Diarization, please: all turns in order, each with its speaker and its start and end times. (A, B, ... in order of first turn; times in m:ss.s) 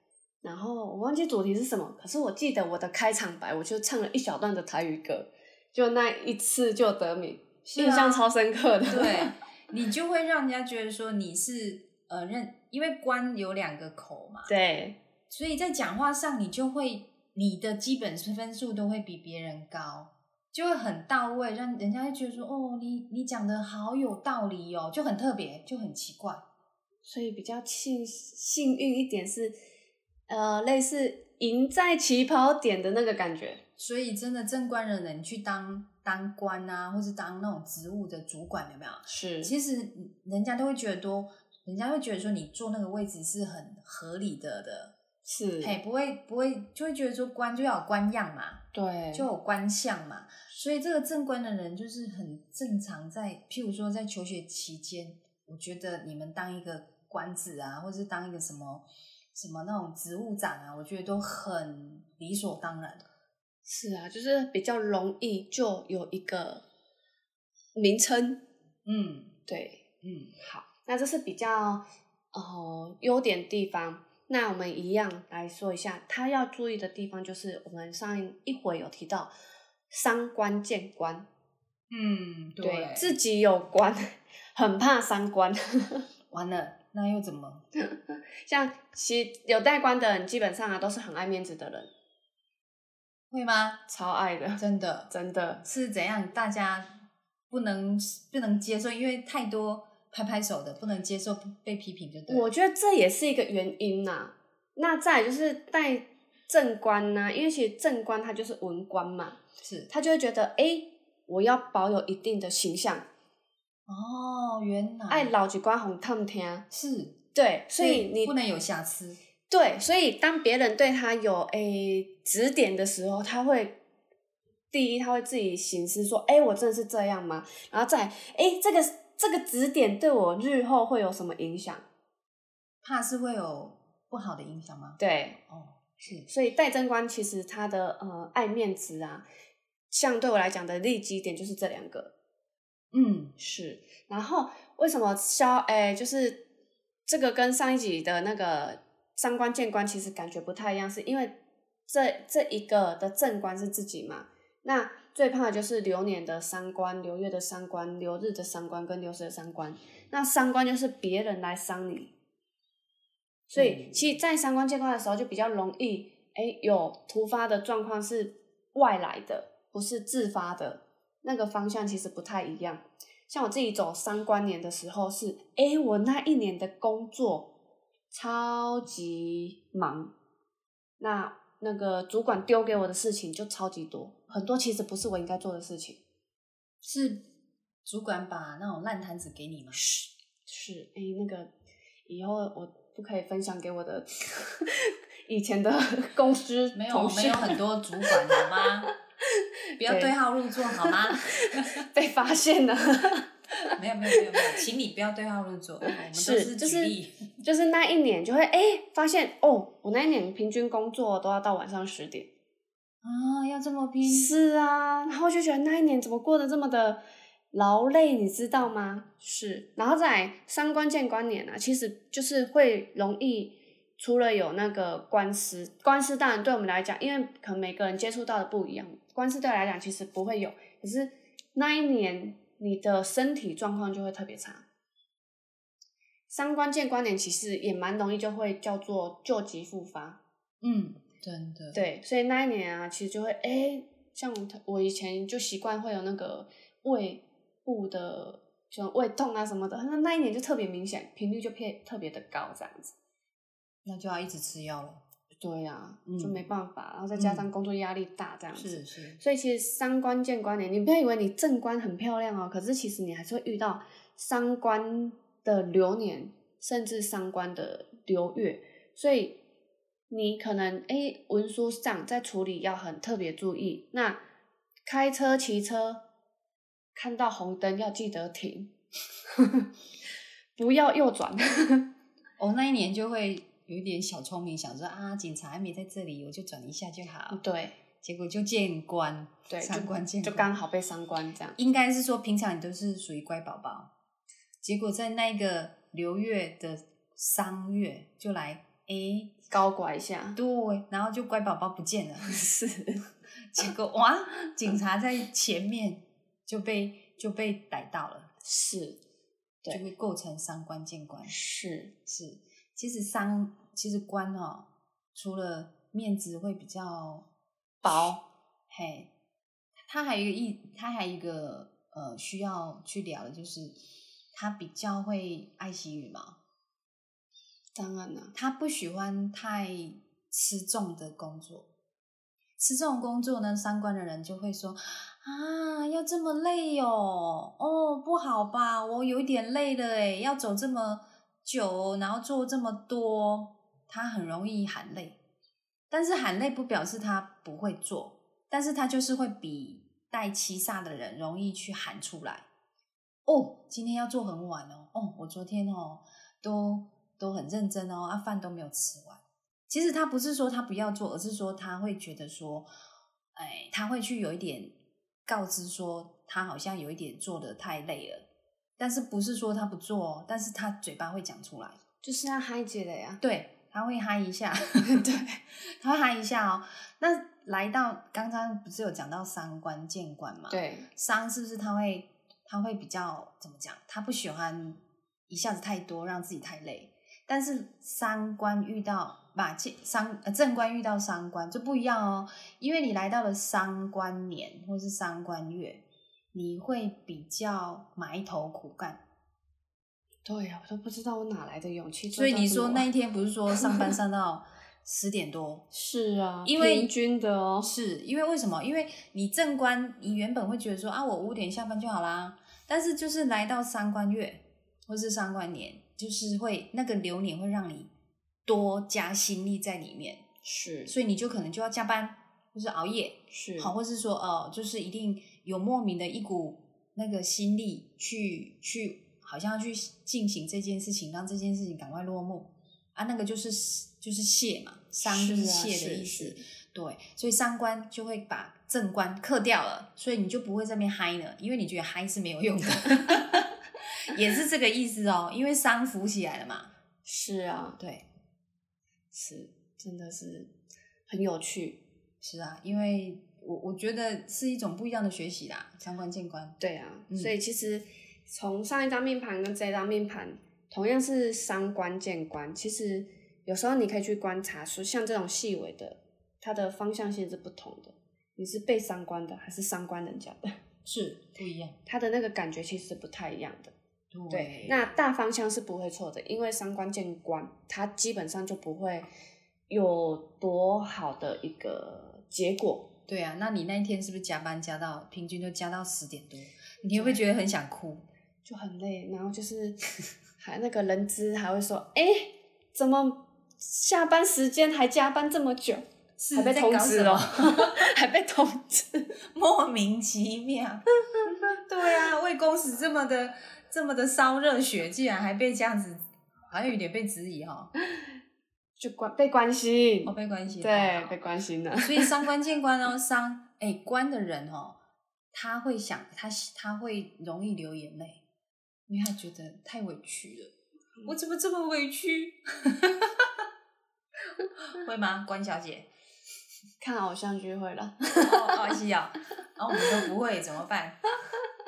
0:00.4-0:09.3 A
0:07.7-0:08.3 B
0:08.9-0:14.5 B
0:14.5-0:15.0 A
0:15.3-0:26.4 B
0:27.0-0:29.5 A
0:30.3-0:33.6 A
0:33.8-0:45.0 B
0:39.1-0:39.5 A
0:45.2-0:45.8 A
0:45.6-1:03.0 B
0:48.7-0:49.3 A
1:03.6-1:06.6 A
1:07.8-1:08.4 A
1:08.8-1:09.4 B
1:09.5-1:09.8 A
1:10.0-1:10.3 B
1:10.4-1:19.3 A
1:19.9-1:21.3 A
1:21.9-1:23.1 B
1:22.6-1:26.1 A
1:26.3-1:27.6 B
1:27.7-1:31.9 A
1:33.3-1:33.8 B
1:33.9-1:35.6 A
1:34.6-1:35.1 B
1:35.6-1:36.9 B
1:37.5-1:42.5 B
1:42.3-1:53.1 A
1:49.6-1:49.9 B
1:53.9-1:55.3 B
1:55.1-1:56.6 A
1:56.7-1:57.2 B
1:57.4-1:58.4 A
1:57.8-1:59.2 B
1:59.5-2:03.8 A
2:04.7-2:11.8 A
2:12.8-2:16.3 B
2:15.0-2:15.4 A
2:16.3-2:19.2 A
2:19.9-2:22.1 A
2:22.9-2:23.4 B
2:23.4-2:26.4 A
2:27.1-2:31.4 A
2:31.9-2:42.1 A
2:43.5-2:57.5 A
2:43.5-2:44.0 B
2:58.1-3:00.1 A
3:01.0-3:06.0 A
3:06.8-3:07.2 B
3:07.8-3:09.8 B
3:09.8-3:11.5 A
3:12.1-3:18.6 A
3:16.7-3:18.9 B
3:19.3-3:20.1 A
3:19.8-3:21.9 B
3:20.7-3:23.3 A
3:23.7-3:27.2 B
3:24.1-3:24.5 A
3:25.9-3:32.3 A
3:33.0-3:34.3 B
3:34.0-3:37.0 A
3:37.5-3:54.6 A
3:56.3-4:00.2 A
4:00.6-4:01.8 B
4:01.7-4:13.0 A
4:13.8-4:15.0 B
4:15.4-4:29.4 A
4:16.1-4:16.4 B
4:17.1-4:17.5 B
4:18.5-4:19.2 B
4:30.1-4:34.2 A
4:34.9-4:36.0 A
4:37.0-4:38.7 A
4:39.3-4:39.7 A
4:40.6-4:41.9 A
4:42.4-4:47.4 B
4:47.3-4:47.8 A
4:48.0-4:50.5 B
4:49.5-4:51.6 A
4:51.6-4:53.9 B
4:54.6-4:59.4 B
4:59.5-5:00.4 A
5:00.4-5:02.5 B
5:02.2-5:03.1 A
5:03.5-5:08.3 B
5:08.4-5:09.0 A
5:09.7-5:11.4 B
5:11.3-5:11.9 A
5:12.1-5:17.2 B
5:17.8-5:18.2 A
5:18.7-5:19.1 B
5:19.8-5:23.8 B
5:24.3-5:26.4 B
5:27.8-5:28.3 A
5:28.3-5:31.7 B
5:32.6-5:45.2 B
5:45.9-5:52.5 B
5:53.2-6:02.7 B
6:03.4-6:04.8 B
6:05.2-6:08.2 B
6:08.8-6:11.8 B
6:12.0-6:13.2 A
6:13.2-6:39.0 B
6:14.8-6:15.4 A
6:20.5-6:20.9 A
6:40.2-6:42.9 A
6:42.1-6:45.6 B
6:43.5-6:43.9 A
6:45.7-6:47.7 A
6:46.4-6:46.9 B
6:47.6-6:57.9 B
6:58.5-7:00.2 B
7:00.4-7:01.0 A
7:00.9-7:26.7 B
7:03.3-7:03.7 A
7:15.0-7:16.4 A
7:27.0-7:27.8 A
7:27.8-7:28.0 B
7:29.1-7:30.5 A
7:31.1-7:31.8 A
7:32.2-7:36.6 B
7:36.6-7:50.5 A
7:50.8-7:51.8 B
7:51.9-7:53.7 A
7:54.1-7:54.9 B
7:54.3-7:59.1 A
7:59.7-8:02.9 A
8:03.1-8:08.0 B
8:06.9-8:07.2 A
8:08.4-8:09.8 A
8:10.4-8:19.1 A
8:16.2-8:17.9 B
8:19.3-8:27.7 B
8:28.8-8:32.2 A
8:30.1-8:31.2 B
8:31.8-8:34.8 B
8:35.3-8:38.2 B
8:38.9-8:40.5 B
8:41.0-8:43.3 B
8:44.6-8:45.9 B
8:46.8-8:48.7 A
8:48.2-8:51.0 B